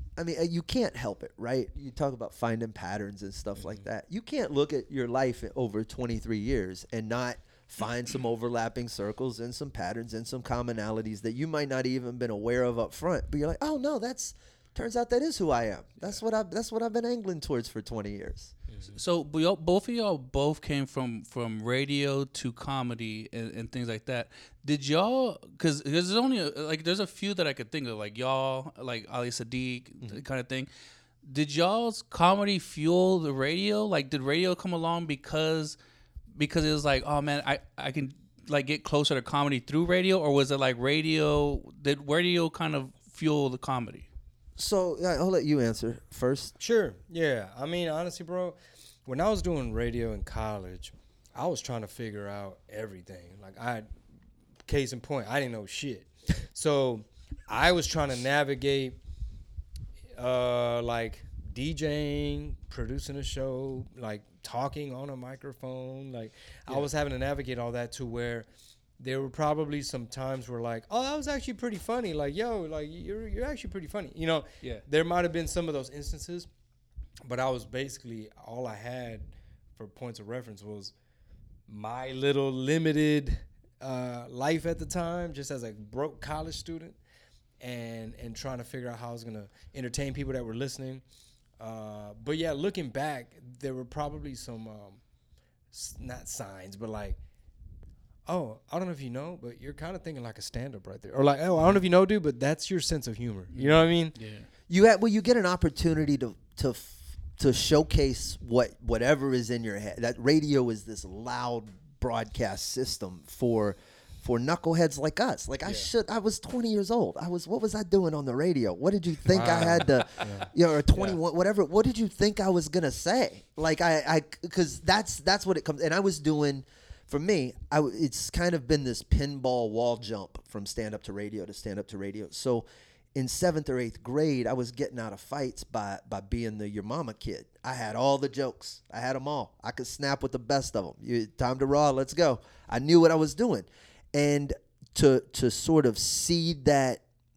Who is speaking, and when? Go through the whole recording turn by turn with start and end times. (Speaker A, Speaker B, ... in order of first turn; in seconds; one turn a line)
Speaker A: 0.2-18.5
Speaker B: 18.9-30.7
Speaker B: 31.2-35.8
Speaker B: 36.4-44.1
Speaker A: 44.6-46.5
Speaker C: 46.6-53.9
Speaker C: 54.7-59.0
Speaker C: 60.2-68.5
Speaker C: 69.0-76.5
Speaker C: 77.2-80.9
Speaker C: 81.7-87.0
Speaker C: 87.6-91.0
Speaker C: 91.6-95.0
Speaker C: 95.7-97.2
Speaker C: 98.3-104.2
Speaker B: 103.5-104.5
Speaker A: 104.7-147.0
Speaker C: 119.3-121.2